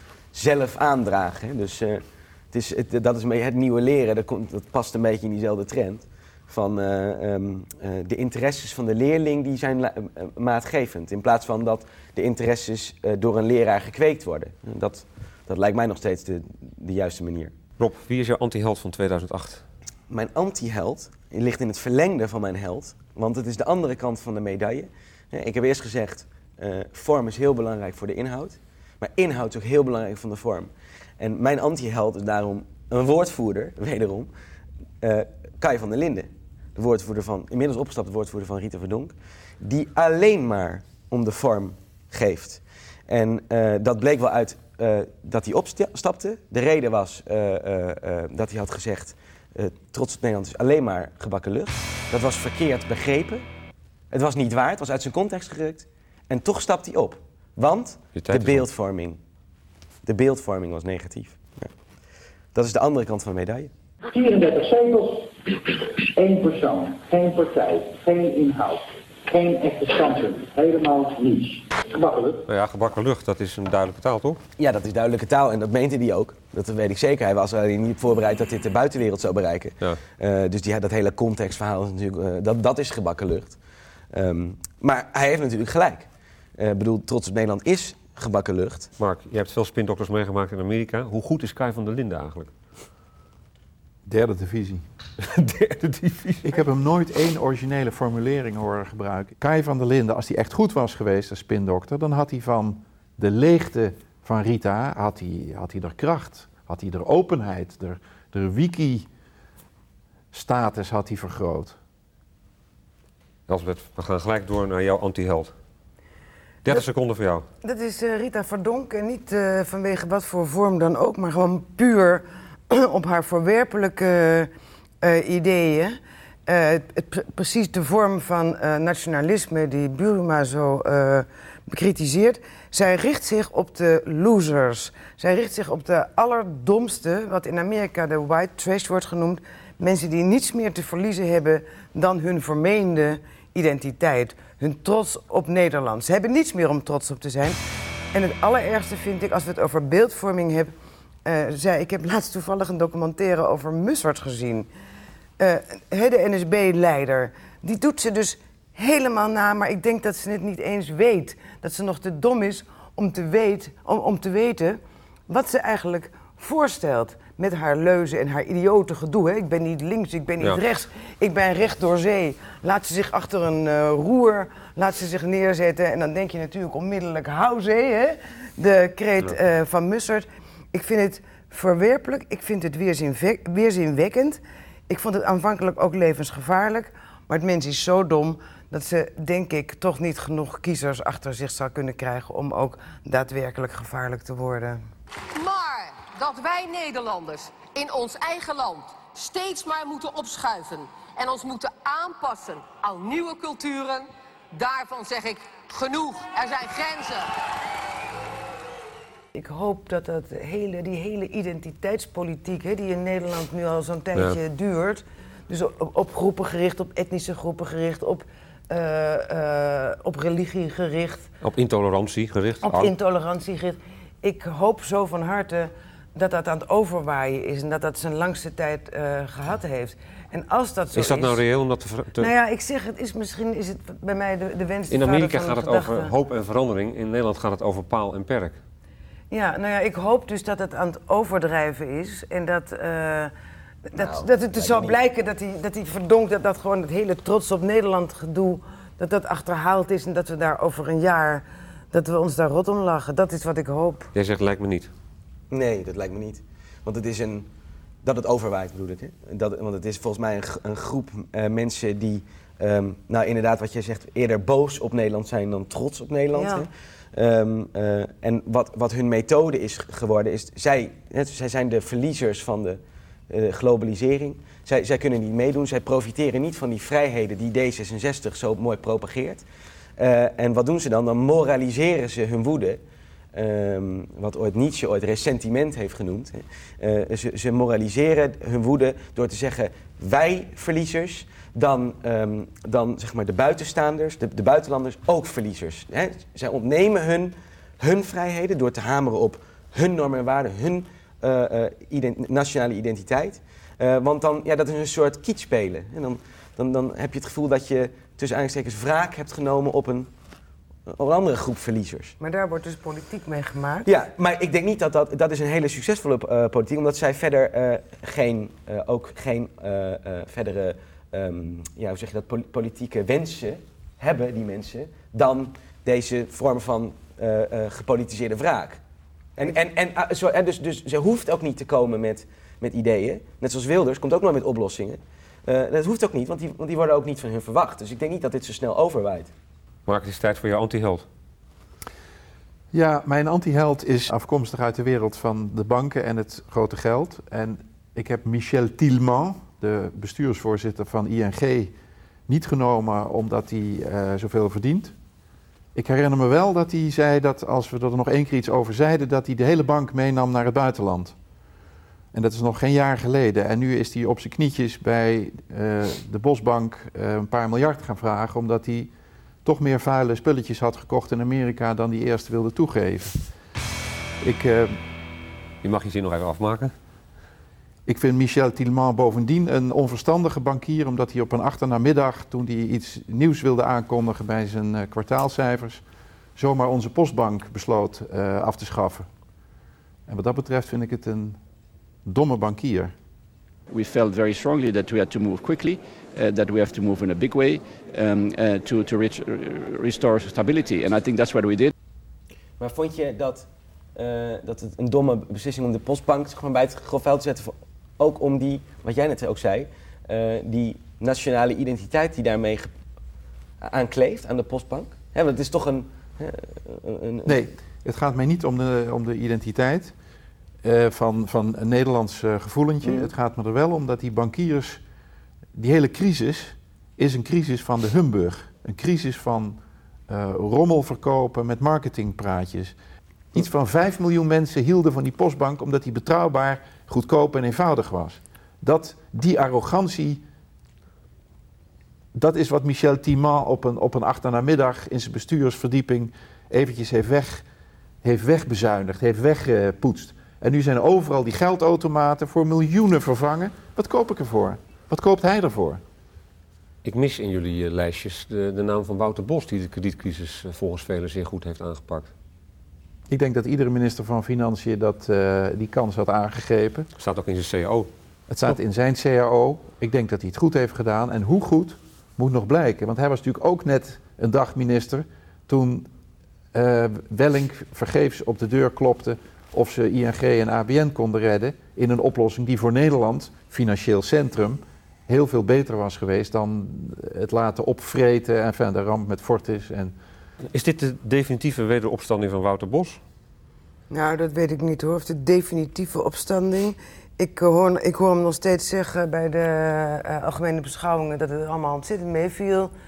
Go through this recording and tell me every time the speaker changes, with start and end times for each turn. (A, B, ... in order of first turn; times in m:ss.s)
0:00.3-0:17.5 A
0:17.8-0:19.6 B
0:20.1-0:34.3 A
0:35.0-0:53.4 A
0:54.1-0:59.2 A
0:58.2-0:58.6 B
1:00.0-1:01.7 A
1:02.5-1:03.7 A
1:04.1-1:12.4 C
1:12.5-1:14.4 B
1:14.6-1:23.6 A
1:24.1-1:28.9 A
1:29.0-1:32.5 B
1:34.0-1:34.8 D
1:35.2-1:36.5 B
1:36.4-1:49.1 D
1:50.3-1:51.8 D
1:53.5-1:55.5 B
1:56.6-1:57.4 B
1:57.6-2:04.5 E
2:05.0-2:27.6 E
2:28.1-2:30.7 E
2:31.2-2:34.7 E
2:35.4-3:14.8 E
3:15.4-3:27.3 F
3:29.4-3:41.3 E
3:41.4-3:42.9 B
3:42.6-3:51.4 E
3:50.9-3:52.3 B
3:52.2-3:56.1 E
3:54.9-3:58.6 B
3:59.3-4:03.3 E
4:03.9-4:14.1 E
4:04.0-4:05.0 A
4:14.1-4:14.9 B
4:15.5-4:17.5 A
4:18.0-4:39.4 A
4:26.4-4:26.6 E
4:40.0-4:42.8 A
4:43.3-5:10.1 A
5:10.9-5:12.1 A
5:12.2-5:13.9 E
5:13.8-5:28.8 A
5:29.4-5:39.3 A
5:39.9-5:41.0 B
5:42.7-5:51.7 D
5:52.3-5:54.9 D
5:55.7-6:01.1 D
6:02.1-6:08.9 D
6:09.4-6:13.2 D
6:14.2-6:14.8 D
6:15.6-6:16.7 B
6:17.9-6:25.8 D
6:26.4-6:29.1 D
6:30.1-6:31.4 D
6:32.0-6:32.9 D
6:33.7-6:41.7 G
6:42.6-6:52.7 A
6:53.6-6:57.4 A
6:57.2-6:59.9 D
7:00.6-7:04.8 D
7:05.6-7:12.7 D
7:13.3-7:20.2 D
7:22.1-7:27.4 D
7:28.0-7:35.8 D
7:36.8-7:42.1 B
7:43.1-7:46.9 D
7:47.0-7:47.9 B
7:48.3-7:55.9 D
7:56.5-8:09.9 D
8:10.5-8:13.0 B
8:13.9-8:22.7 E